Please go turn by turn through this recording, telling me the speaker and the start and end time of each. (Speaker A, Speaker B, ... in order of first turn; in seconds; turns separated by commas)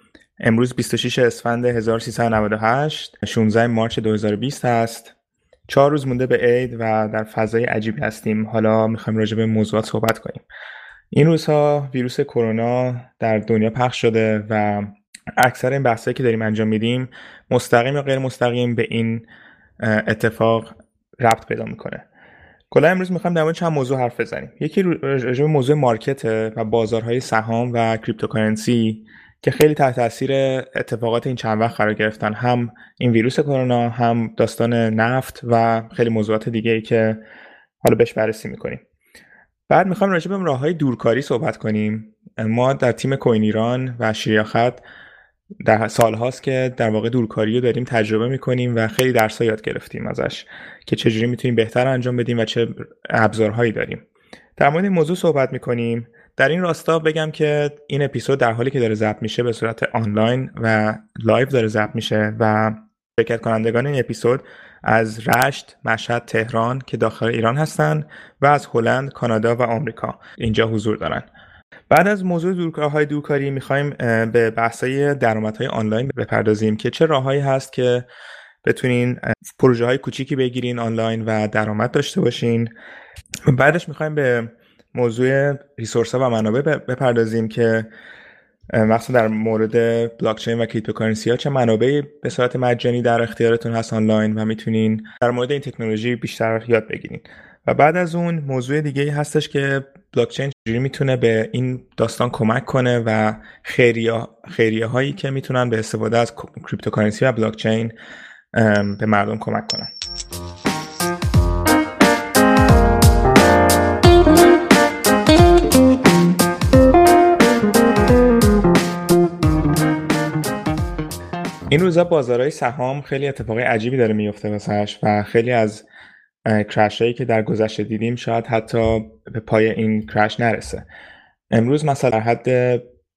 Speaker A: 0.4-5.1, Speaker A: 5.7-10.4, Speaker A: 11.1-19.3, Speaker A: 19.8-22.1, Speaker A: 22.7-37.2, Speaker A: 37.8-38.8, Speaker A: 39.7-44.8, Speaker A: 45.6-54.0, Speaker A: 54.6-71.3, Speaker A: 71.9-78.1, Speaker A: 78.6-82.7, Speaker A: 83.5-87.9, Speaker A: 88.7-108.0, Speaker A: 108.5-109.9, Speaker A: 121.7-125.8, Speaker A: 126.5-130.9, Speaker A: 131.5-132.8